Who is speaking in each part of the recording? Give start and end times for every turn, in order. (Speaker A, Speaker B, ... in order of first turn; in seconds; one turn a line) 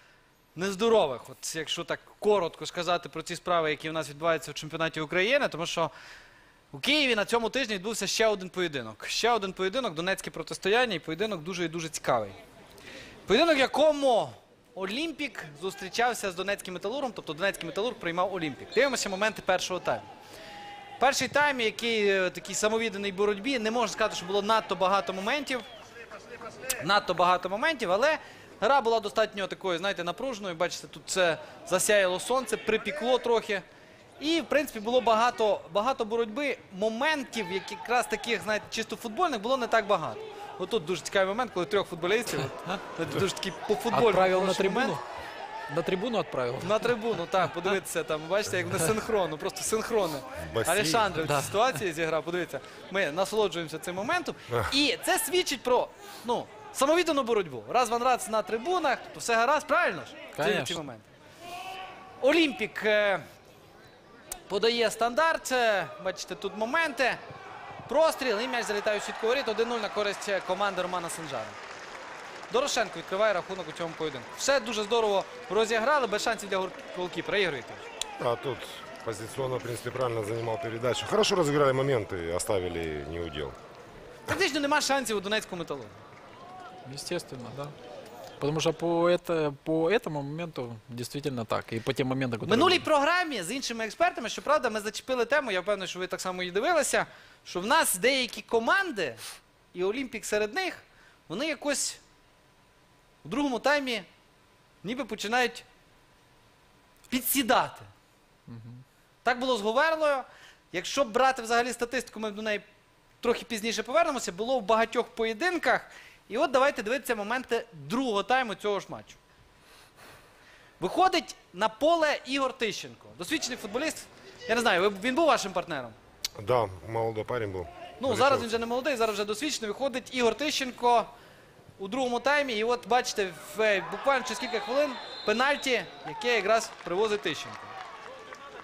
Speaker A: 0.5-5.9
Speaker A: 6.7-12.4
Speaker A: 13.3-20.1
Speaker A: 21.0-25.6
Speaker A: 26.7-33.6
Speaker A: 34.2-45.0
Speaker B: 43.9-45.0
Speaker B: 45.7-46.9
Speaker A: 46.6-61.1
Speaker C: 50.4-51.2
Speaker B: 60.3-60.8
Speaker A: 62.2-63.2
Speaker A: 64.5-67.2
Speaker A: 67.8-71.6
Speaker A: 72.5-77.8
Speaker C: 78.2-83.5
Speaker A: 84.3-86.0
Speaker B: 86.8-87.7
Speaker B: 88.4-92.8
Speaker A: 92.4-99.2
Speaker A: 99.7-102.0
Speaker A: 103.2-104.1
Speaker A: 104.8-105.6
Speaker A: 107.1-107.9
Speaker B: 108.5-108.8
Speaker A: 109.2-112.7
Speaker A: 113.2-119.2
Speaker A: 120.8-126.0
Speaker C: 126.4-128.5
Speaker A: 128.0-131.1
Speaker A: 131.8-137.7